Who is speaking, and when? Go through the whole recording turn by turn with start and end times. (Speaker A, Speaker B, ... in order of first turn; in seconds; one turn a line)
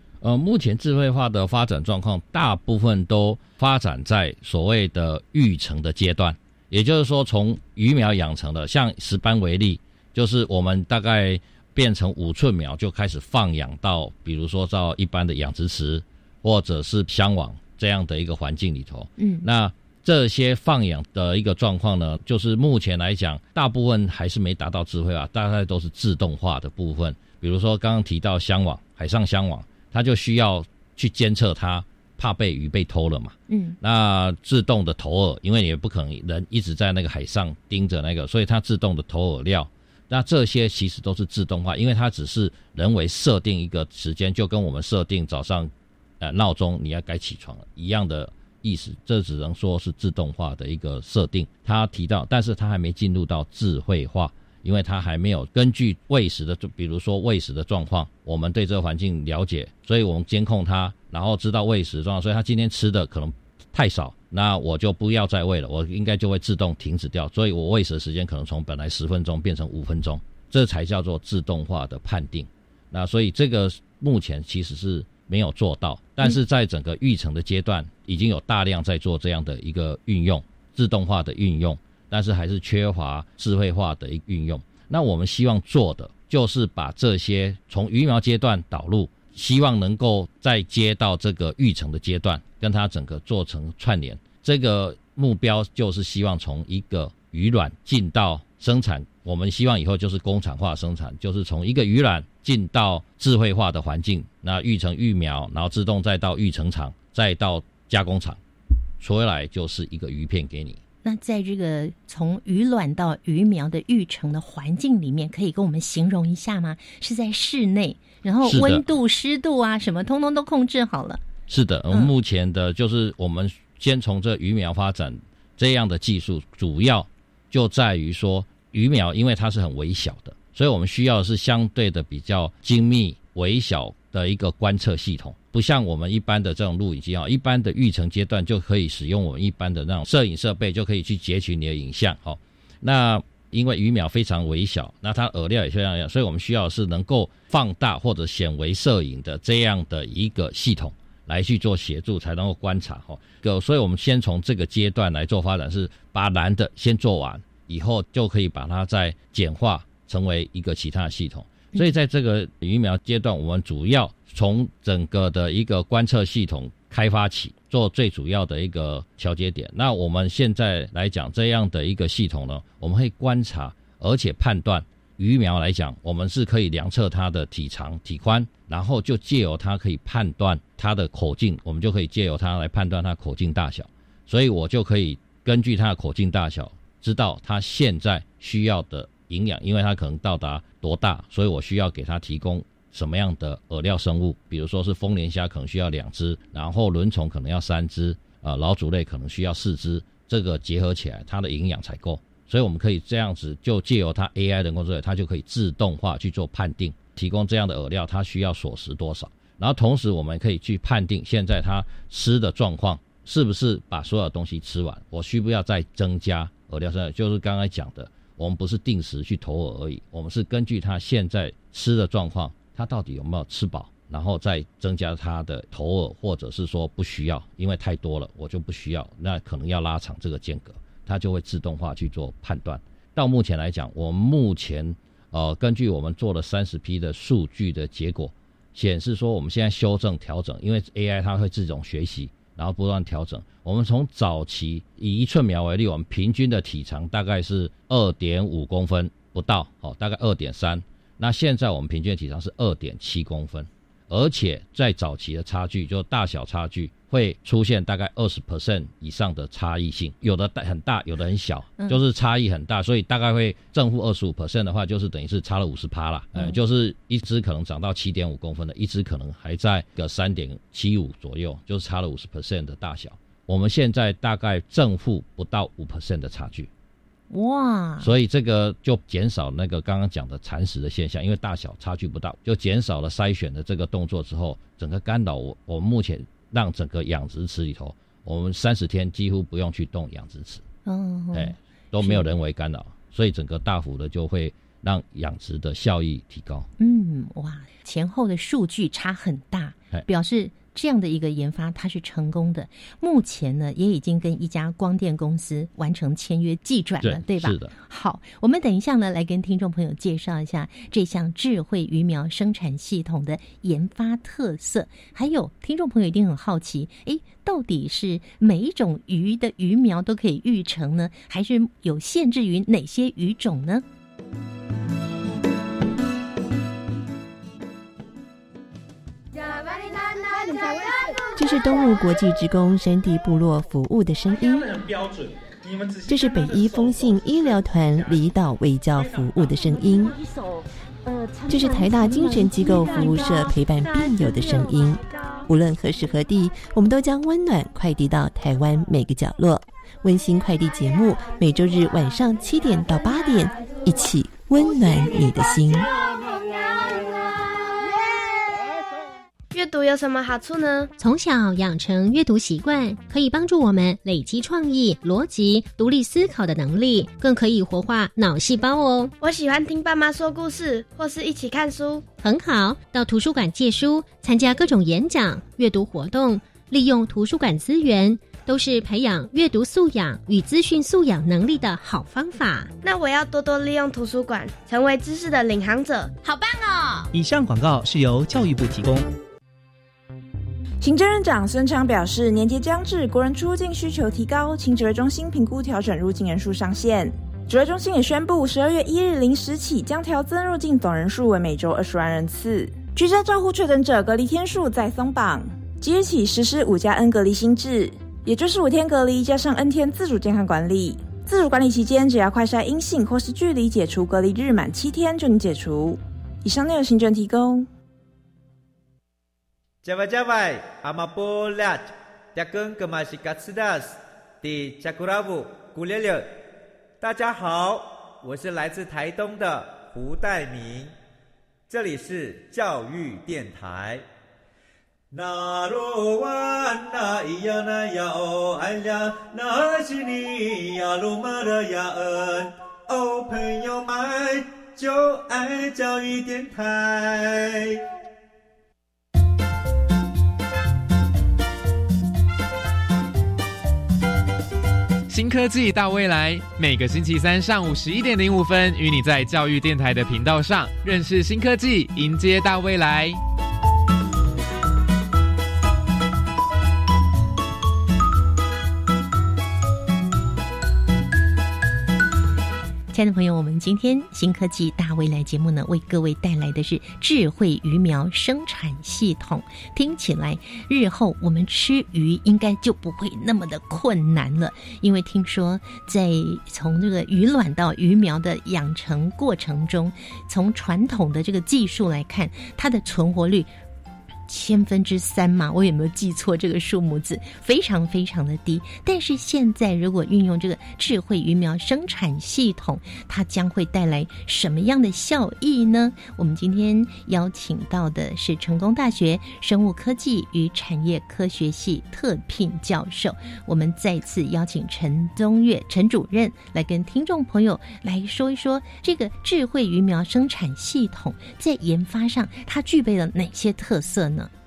Speaker A: 0.2-108.4
Speaker B: 19.2-19.5
Speaker B: 33.5-33.8
Speaker A: 109.0-110.8
Speaker B: 111.0-121.2
Speaker A: 118.4-118.8
Speaker A: 121.5-276.7
Speaker B: 277.3-278.1
Speaker A: 278.0-290.6
Speaker B: 290.8-292.2
Speaker A: 291.3-296.7
Speaker B: 296.8-323.8
Speaker A: 307.0-307.7
Speaker C: 331.4-334.9
Speaker C: 336.0-340.2
Speaker C: 341.5-355.9
Speaker D: 356.2-358.4
Speaker D: 359.5-360.9
Speaker E: 361.0-369.1
Speaker D: 369.2-372.0
Speaker E: 372.2-382.7
Speaker D: 382.8-387.1
Speaker F: 387.1-389.1
Speaker G: 390.8-417.7
Speaker H: 419.9-426.3
Speaker H: 427.1-430.9
Speaker H: 431.8-434.0
Speaker H: 435.2-442.4
Speaker H: 443.0-447.5
Speaker I: 455.1-463.2
Speaker B: 472.9-493.5
Speaker B: 494.3-524.3